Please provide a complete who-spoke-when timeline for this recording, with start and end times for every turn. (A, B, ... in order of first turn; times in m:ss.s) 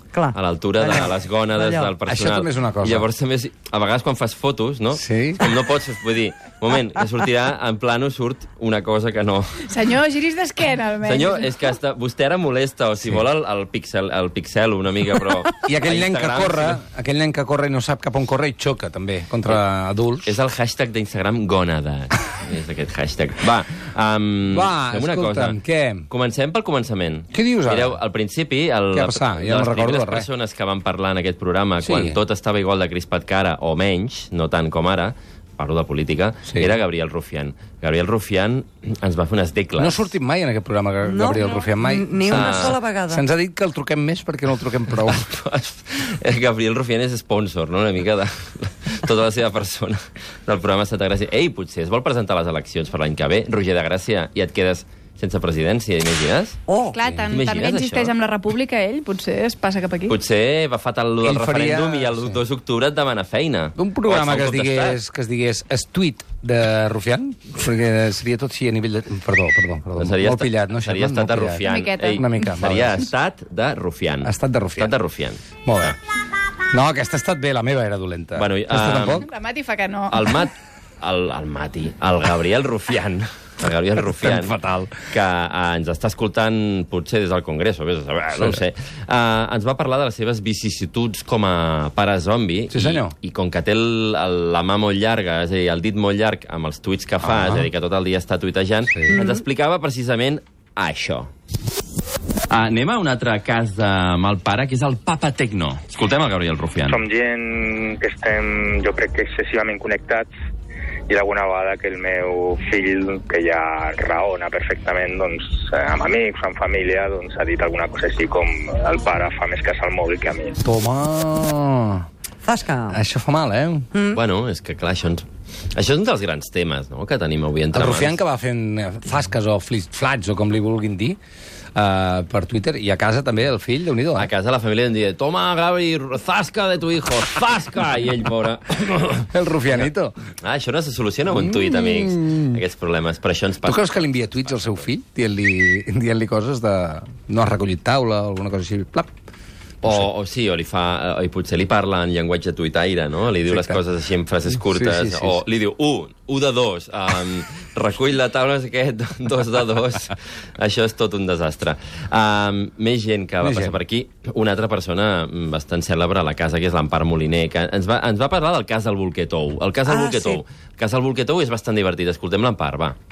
0:00.1-0:01.9 A
0:00.3-0:09.7 B
0:02.0-0:03.1 C
0:04.9-0:05.4 C
0:09.6-0:11.4 D
0:11.0-0:16.8 B
0:15.6-0:20.4 C
0:20.2-0:40.1 B
0:24.5-0:26.1 C
0:27.3-0:28.0 C
0:28.9-0:30.3 C
0:31.8-0:32.2 C
0:39.8-0:45.2 C
0:41.0-0:43.2 A
0:42.3-0:42.8 B
0:44.9-0:56.6 B
0:56.9-1:00.1 D
0:56.9-0:57.3 C
0:57.3-0:58.2 B
1:00.1-1:05.0 B
1:01.2-1:02.4 C
1:03.8-1:13.0 C
1:10.0-1:16.0 B
1:11.6-1:12.3 D
1:14.2-1:14.9 C
1:15.6-1:16.0 C
1:16.7-1:19.3 C
1:18.4-1:19.2 B
1:19.2-1:20.3 D
1:20.1-1:24.6 B
1:24.1-1:25.1 C
1:25.1-1:41.3 B
1:32.7-1:33.1 C
1:37.2-1:37.7 C
1:39.1-1:39.4 A
1:42.5-1:47.0 B
1:46.9-1:50.3 E
1:51.1-2:00.5 E
2:00.6-2:02.0 C
2:02.4-2:03.0 A
2:02.9-2:03.9 C
2:04.1-2:08.2 B
2:07.7-2:11.2 C
2:11.7-2:14.3 C
2:14.2-2:19.9 B
2:19.3-2:20.1 C
2:20.4-2:24.8 B
2:21.3-2:22.6 C
2:23.6-2:29.1 C
2:29.8-2:53.0 B
2:33.5-2:33.8 C
2:34.5-2:35.4 C
2:43.4-2:43.8 C
2:49.8-2:50.4 A